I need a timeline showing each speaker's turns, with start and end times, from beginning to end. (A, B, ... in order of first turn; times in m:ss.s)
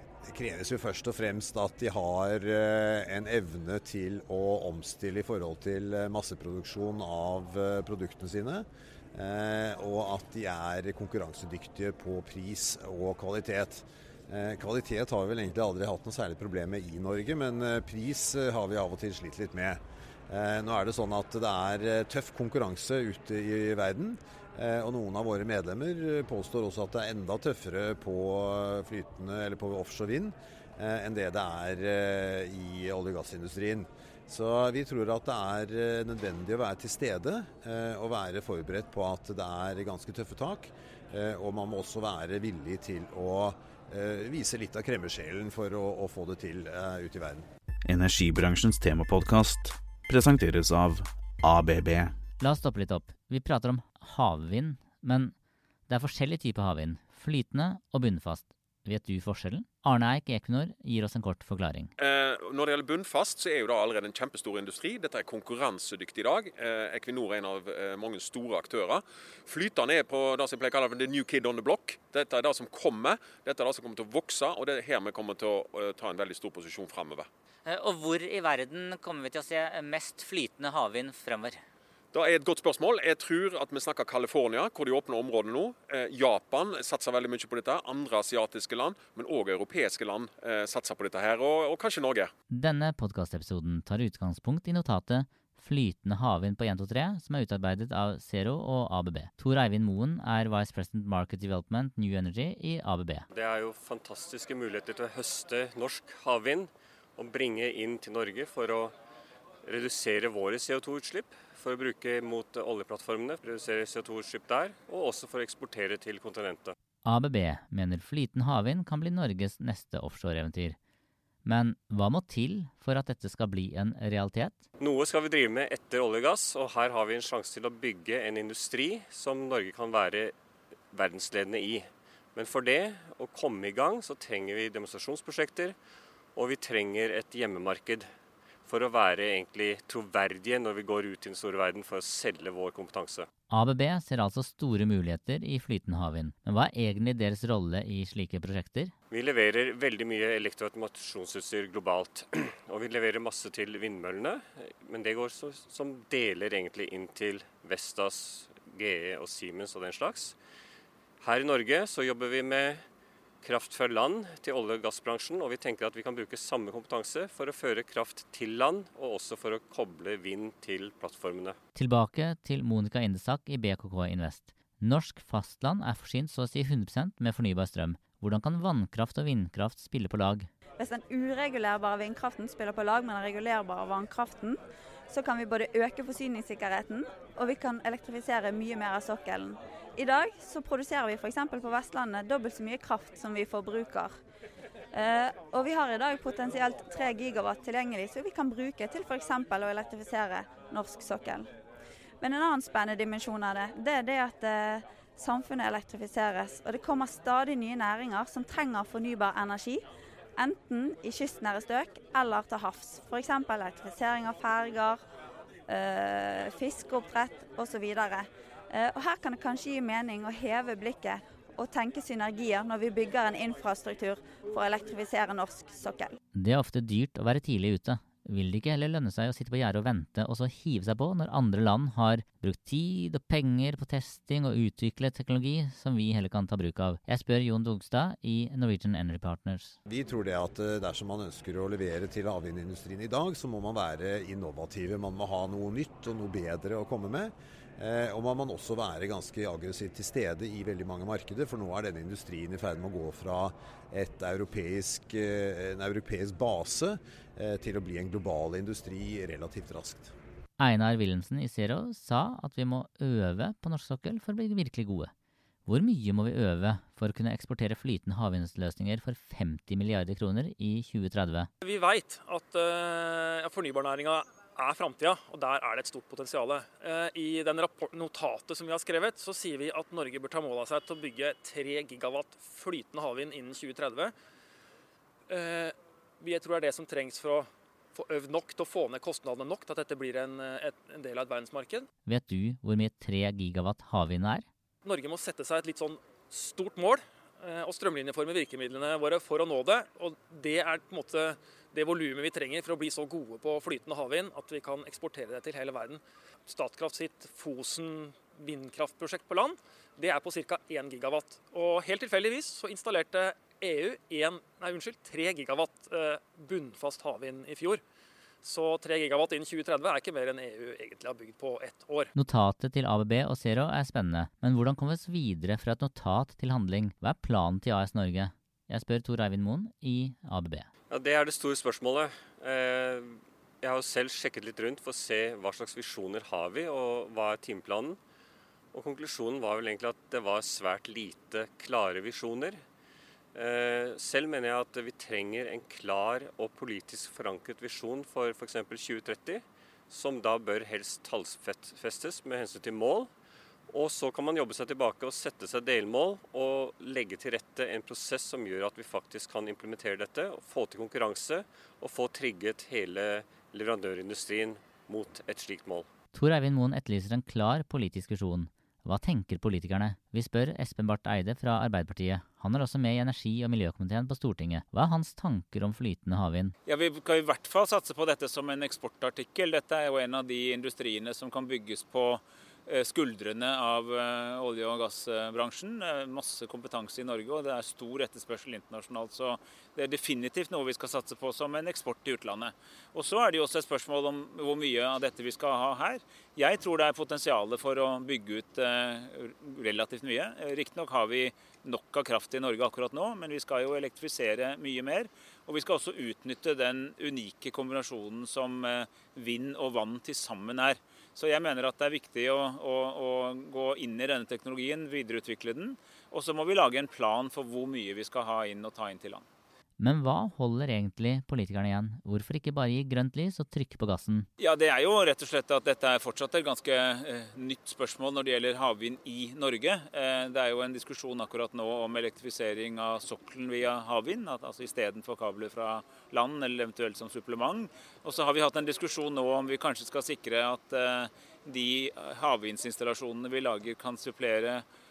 0:00.3-0:47.4 A
0:47.9-0:52.1 B
0:52.4-0:55.3 C
0:55.9-1:01.9 C
1:02.0-1:17.3 D
1:17.6-1:21.6 E
1:22.1-1:32.3 D
1:32.5-1:43.2 C
1:43.3-1:48.9 F
1:49.6-1:56.7 F
1:57.0-2:00.8 C
2:01.4-2:04.6 C
2:04.8-2:10.3 F
2:10.9-2:15.8 F
2:16.3-2:18.1 F
2:18.6-2:23.3 F
2:23.5-2:28.9 C
2:29.1-2:40.4 F
2:41.2-2:42.8 F
2:43.4-2:51.6 F
2:51.8-3:00.5 C
3:00.8-3:04.6 G
3:05.1-3:14.1 G
3:14.9-3:21.5 G
3:22.2-3:29.8 G
3:30.4-3:35.0 G
3:35.7-3:46.2 G
3:46.3-3:59.8 C
3:59.8-4:20.1 A
4:20.6-4:25.1 C
4:25.7-4:31.5 C
4:31.6-4:44.1 H
4:45.3-4:51.9 H
4:52.1-4:54.4 C
4:54.8-5:17.8 H
5:18.4-5:22.1 H
5:22.1-5:30.7 C
5:30.9-5:38.0 F
5:38.7-5:42.6 F
5:43.3-5:53.1 F
5:53.7-6:05.9 F
6:06.1-6:16.5 C
6:16.6-6:59.2 I
6:59.8-7:04.3 C
7:04.4-7:24.6 I